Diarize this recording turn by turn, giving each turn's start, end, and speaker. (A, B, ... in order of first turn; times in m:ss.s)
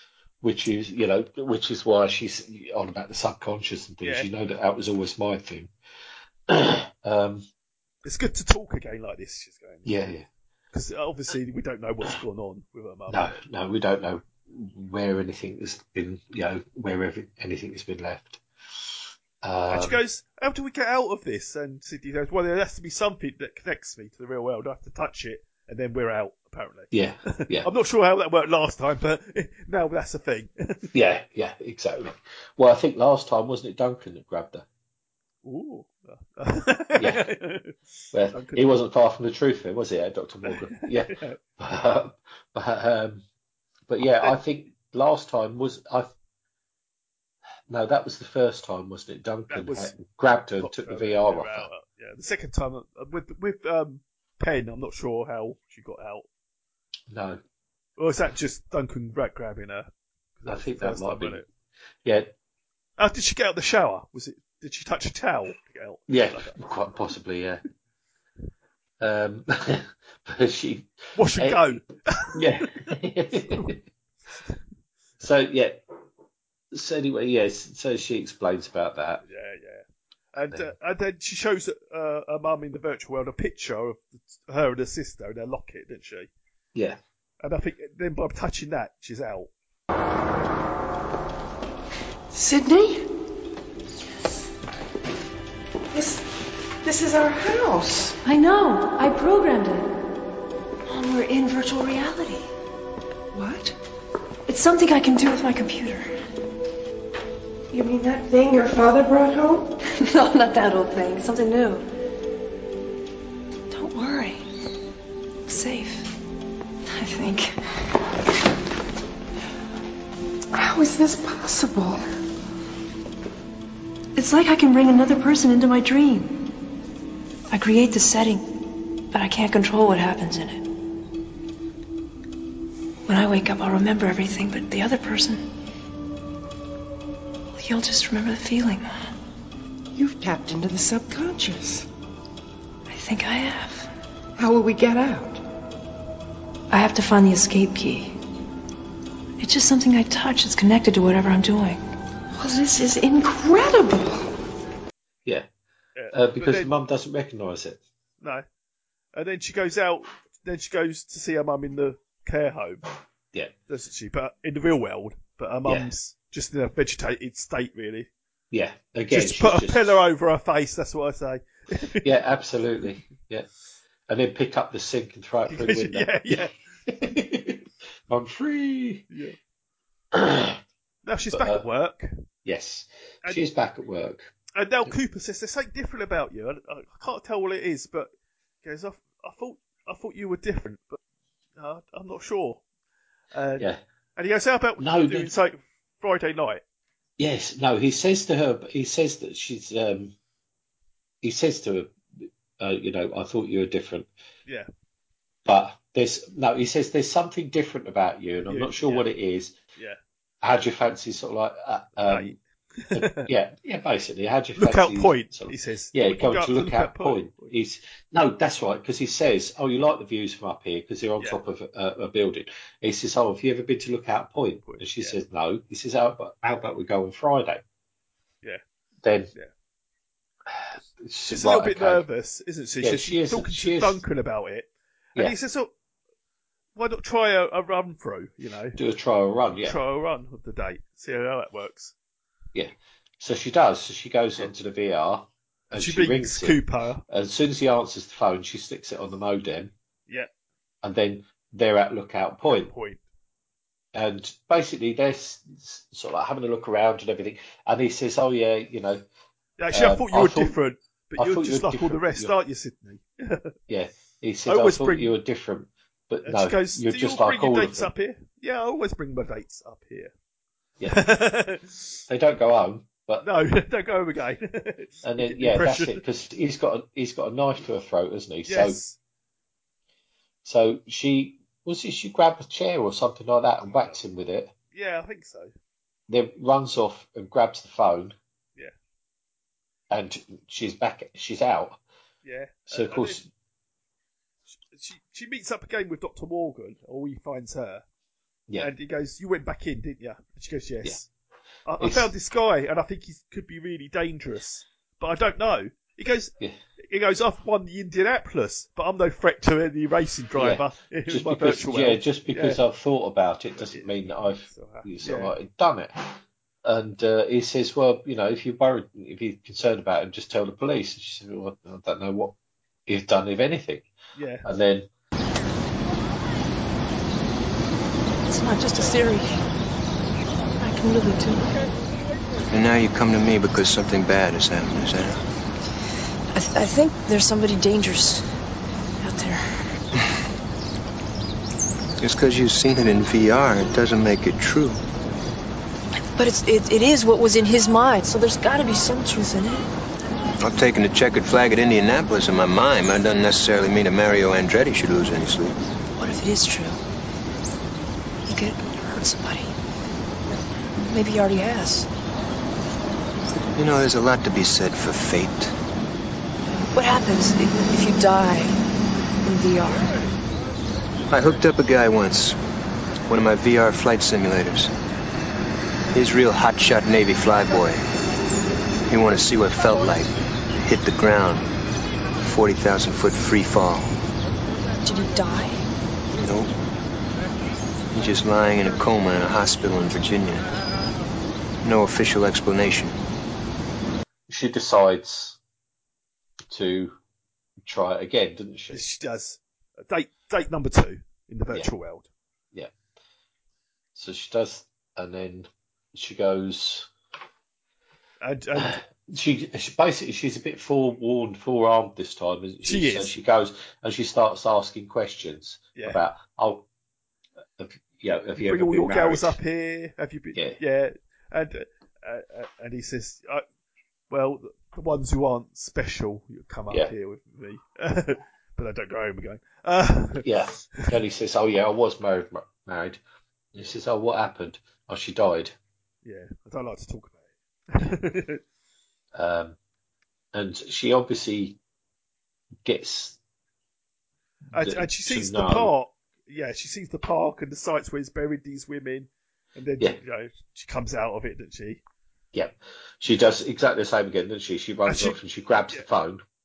0:00.4-0:05.7 A
0:04.0-0:04.3 B
0:06.5-0:07.4 A
0:08.0-0:10.1 B
0:09.8-0:10.2 A
0:10.7-0:13.3 B
0:13.1-0:18.4 A
0:19.4-0:20.0 A
0:19.7-0:30.9 B
0:26.9-0:27.7 A
0:30.9-0:34.6 A
0:35.4-0:37.8 B
0:37.0-0:37.2 A
0:38.1-0:43.2 A
0:38.3-0:38.7 B
0:40.4-0:41.4 B
0:43.9-0:46.1 A
0:47.7-0:51.7 A
0:49.5-0:49.9 B
0:50.6-0:56.2 B
0:57.1-0:57.4 A
0:58.0-0:59.9 B
1:00.4-1:01.4 B
1:00.5-1:01.4 A
1:02.0-1:02.3 A
1:03.0-1:06.6 B
1:06.1-1:07.6 A
1:09.0-1:11.8 A
1:11.2-1:12.9 B
1:12.3-1:13.8 A
1:13.5-1:13.7 B
1:15.2-1:15.8 A
1:16.7-1:19.2 A
1:19.2-1:19.8 B
1:20.3-1:26.3 B
1:26.7-1:27.0 A
1:27.4-1:29.5 B
1:32.3-1:33.1 C
1:35.9-1:36.3 C
1:36.8-1:38.2 C
1:38.2-1:39.9 D
1:40.9-1:42.5 D
1:43.3-1:43.7 C
1:44.5-1:46.1 D
1:47.7-1:49.7 C
1:50.0-1:51.8 D
1:53.7-1:54.4 D
1:55.5-1:56.1 D
1:56.9-1:57.5 D
2:00.5-2:02.0 C
2:04.2-2:06.5 D
2:07.5-2:08.5 D
2:09.1-2:10.6 D
2:13.1-2:15.4 D
2:17.6-2:18.9 D
2:19.9-2:21.9 C
2:22.9-2:23.9 D
2:24.4-2:25.4 C
2:26.7-2:28.2 D
2:29.4-2:31.8 D
2:32.3-2:34.4 C
2:36.0-2:36.7 B
2:36.1-2:37.8 A
2:38.2-2:38.4 B
2:39.1-2:42.8 B
2:43.7-2:48.1 B
2:45.6-2:45.9 A
2:48.5-2:50.0 A
2:49.1-2:52.1 B
2:52.0-2:53.5 A
2:54.1-2:56.3 A
2:55.5-2:56.5 B
2:56.9-2:59.0 A
2:59.1-2:59.4 B
3:00.1-3:00.6 A
3:01.0-3:02.1 B
3:01.3-3:01.6 A
3:02.4-3:04.3 A
3:04.5-3:08.1 B
3:08.6-3:11.0 B
3:11.6-3:12.6 B
3:13.3-3:16.6 B
3:14.8-3:15.3 A
3:17.2-3:20.1 A
3:21.2-3:24.1 A
3:25.4-3:29.6 A
3:28.4-3:29.1 B
3:30.4-3:32.4 A
3:32.0-3:33.3 B
3:32.9-3:47.6 A
3:34.6-3:37.5 B
3:44.6-3:45.2 B
3:49.0-3:49.3 A
3:50.5-3:52.0 A
3:51.3-3:55.7 B
3:52.8-3:54.0 A
3:56.8-3:58.8 B
3:58.8-3:59.8 A
3:59.6-4:01.9 B
4:02.5-4:09.7 A
4:05.7-4:07.0 B
4:10.8-4:12.7 A
4:12.4-4:13.0 B
4:13.9-4:19.0 A
4:19.6-4:23.5 B
4:19.7-4:20.6 A
4:21.2-4:22.3 A
4:23.7-4:27.9 A
4:24.4-4:25.1 B
4:26.2-4:30.1 B
4:30.9-4:31.9 B
4:32.1-4:33.2 A
4:33.2-4:36.0 B
4:35.0-4:38.8 A
4:38.5-4:39.0 B
4:40.4-4:44.5 A
4:43.7-4:44.0 B
4:44.7-4:45.5 B
4:46.1-4:48.2 A
4:49.9-4:51.8 A
4:52.2-4:53.2 B
4:52.7-4:53.3 A
4:54.5-4:57.8 B
4:58.6-5:01.1 B
5:01.6-5:06.3 B
5:01.8-5:02.1 A
5:06.8-5:12.6 B
5:10.4-5:16.1 A
5:13.6-5:15.4 B
5:16.6-5:22.3 A
5:22.9-5:23.9 A
5:24.1-5:24.5 B
5:24.4-5:24.9 A
5:28.2-5:29.4 D
5:30.6-5:31.6 D
5:32.5-5:35.2 E
5:36.3-5:38.3 D
5:39.0-5:39.7 D
5:42.0-5:44.8 E
5:46.2-5:49.7 D
5:50.4-5:55.6 E
5:56.0-5:56.8 D
5:58.2-5:59.5 D
6:00.8-6:01.9 D
6:03.5-6:05.5 E
6:06.7-6:08.6 D
6:09.2-6:10.1 D
6:11.1-6:12.4 E
6:13.0-6:14.7 E
6:15.9-6:17.8 E
6:18.9-6:21.5 E
6:22.2-6:23.9 E
6:24.8-6:25.6 D
6:26.2-6:26.5 E
6:27.9-6:30.5 E
6:31.6-6:33.0 E
6:34.3-6:35.4 A
6:36.5-6:37.0 A
6:37.6-6:38.9 A
6:38.7-6:42.1 B
6:43.9-6:46.9 A
6:48.2-6:48.8 B
6:48.5-6:56.6 A
6:52.6-6:53.1 B
6:55.8-6:56.0 B
6:57.6-6:59.4 A
6:58.4-7:03.4 B
7:04.1-7:10.9 B
7:10.2-7:13.0 A
7:13.5-7:15.5 A
7:16.0-7:17.2 B
7:17.7-7:18.4 B
7:19.1-7:19.6 A
7:20.3-7:21.6 A
7:22.6-7:23.2 A
7:24.5-7:31.8 B
7:24.6-7:25.7 A
7:32.3-7:36.2 A
7:34.8-7:35.8 B